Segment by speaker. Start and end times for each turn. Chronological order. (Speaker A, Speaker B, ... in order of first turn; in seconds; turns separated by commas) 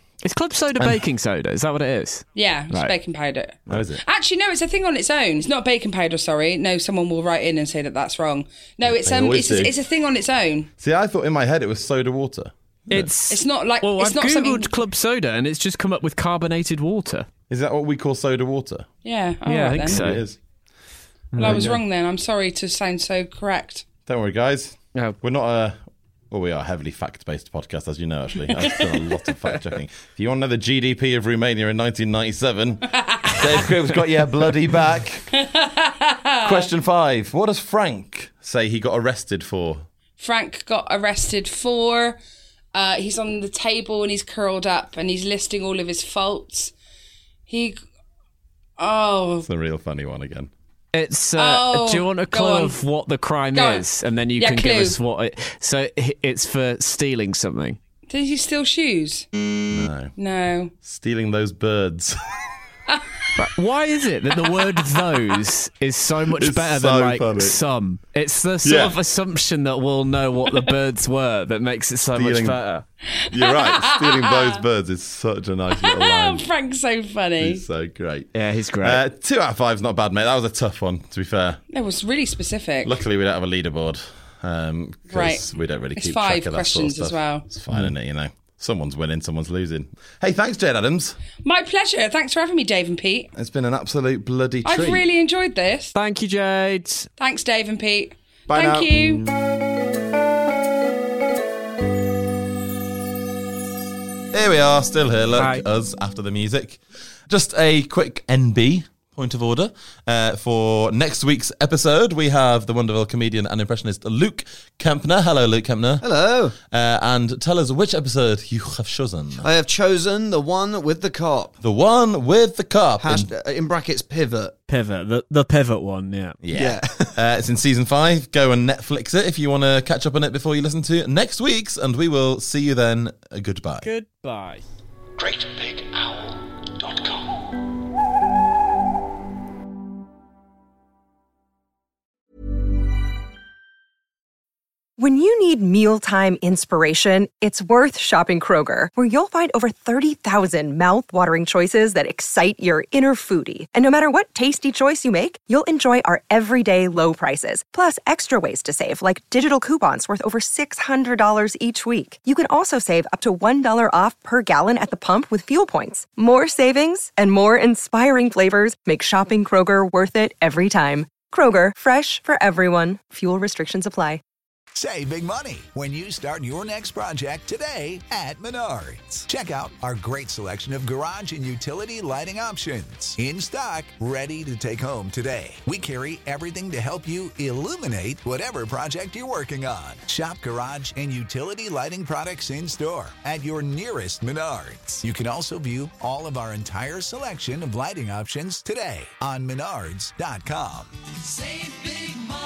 Speaker A: 0.2-2.9, Speaker B: 0.8-1.0, Speaker C: 2.4-10.7, Speaker B: 3.7-4.0, Speaker B: 8.8-9.7, Speaker B: 10.8-13.1, Speaker A: 12.9-17.3, Speaker C: 13.3-14.7, Speaker B: 17.5-18.9, Speaker C: 19.0-20.0, Speaker A: 19.4-20.2, Speaker B: 19.9-20.4, Speaker A: 21.3-21.8, Speaker C: 21.4-23.8, Speaker B: 21.4-21.7, Speaker B: 24.1-25.8, Speaker B: 26.3-35.3, Speaker C: 35.4-36.7, Speaker B: 36.4-39.8, Speaker C: 40.2-42.2, Speaker C: 42.7-46.7, Speaker C: 47.5-47.8, Speaker C: 48.8-49.5, Speaker B: 49.4-50.5, Speaker A: 50.9-57.8, Speaker C: 51.4-52.8, Speaker C: 53.5-53.8, Speaker C: 54.4-55.0, Speaker C: 58.1-59.3, Speaker B: 59.7-60.1, Speaker C: 60.1-60.7, Speaker B: 60.8-62.2, Speaker A: 63.4-72.8, Speaker B: 66.3-67.6, Speaker B: 68.6-69.0, Speaker B: 72.1-72.6, Speaker C: 73.2-74.6, Speaker B: 73.3-76.4, Speaker C: 75.7-77.6, Speaker B: 77.4-78.3, Speaker A: 78.3-79.0, Speaker B: 78.8-81.6, Speaker C: 81.7-83.0, Speaker B: 82.8-91.2, Speaker C: 85.1-85.4, Speaker C: 86.0-87.5, Speaker C: 91.4-93.3, Speaker B: 93.3-95.0, Speaker C: 94.6-95.9, Speaker A: 95.9-97.1, Speaker C: 97.2-99.2, Speaker B: 98.5-99.0, Speaker B: 104.3-116.1, Speaker A: 105.3-105.6, Speaker D: 116.0-116.5, Speaker B: 116.6-119.5, Speaker D: 119.4-121.5, Speaker B: 121.6-123.3, Speaker D: 123.0-124.5, Speaker A: 124.7-126.4, Speaker B: 126.4-133.9, Speaker D: 126.5-127.2, Speaker A: 133.8-134.6, Speaker E: 135.2-137.3, Speaker F: 145.0-174.2, Speaker G: 174.7-200.9